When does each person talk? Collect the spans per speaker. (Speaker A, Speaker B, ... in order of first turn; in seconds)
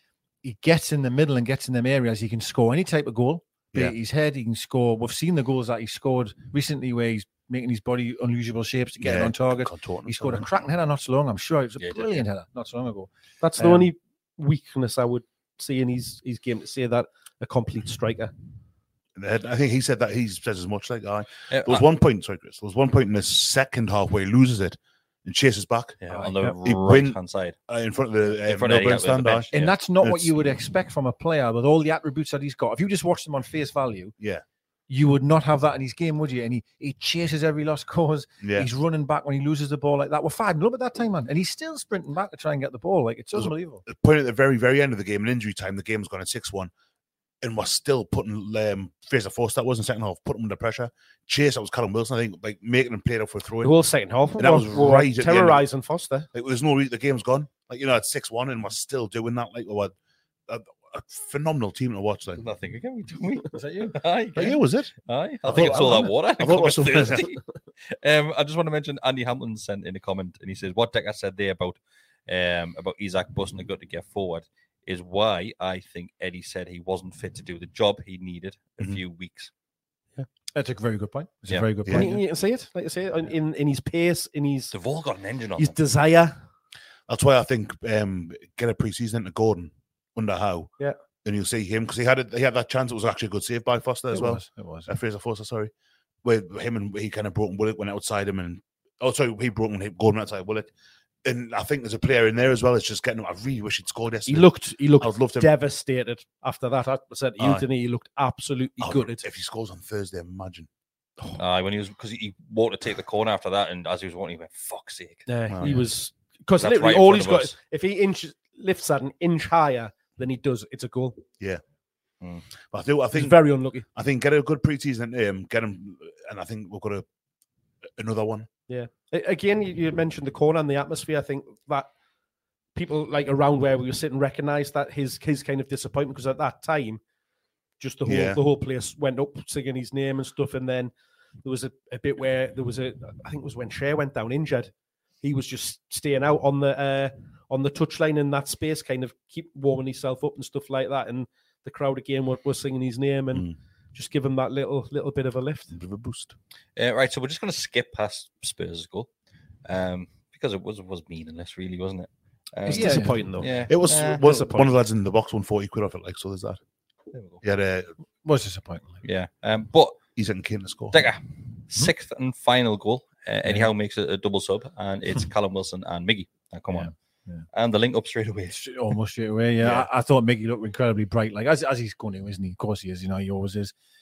Speaker A: 0.4-13.9, 26.1-26.5, 29.5-34.1, 34.9-43.8, 63.5-64.0, 80.5-82.2, 94.1-94.9, 162.7-163.1, 168.2-169.0, 176.7-177.5, 178.5-183.7
Speaker B: 9.0-10.5, 19.2-29.5, 30.0-30.3, 34.2-34.4, 38.4-38.7, 43.4-46.7, 47.4-53.8, 54.4-55.7, 56.3-60.0, 60.5-62.4, 64.4-64.9, 65.4-67.4, 87.1-90.7, 91.2-95.7, 96.2-100.7, 101.2-105.5, 107.4-107.7, 108.8-110.7, 115.5-115.8, 122.7-127.1, 128.0-128.5, 138.1-138.4, 155.7-156.3, 163.7-166.6, 167.4-167.9, 170.2-171.1
Speaker C: 11.8-12.2, 21.5-21.9, 26.0-27.6, 28.4-29.7, 62.4-67.4, 67.9-79.5, 84.7-85.8, 111.4-115.3, 116.6-117.5, 156.8-159.1, 159.7-164.2, 167.1-167.4, 169.0-170.0, 170.9-176.9, 177.5-178.6
Speaker D: 13.4-18.3, 53.6-56.3, 81.9-84.7, 85.6-86.4, 104.3-109.3, 115.3-121.2, 123.1-123.9, 128.7-131.9, 132.8-137.0, 137.8-140.9, 141.4-155.7, 162.7-164.7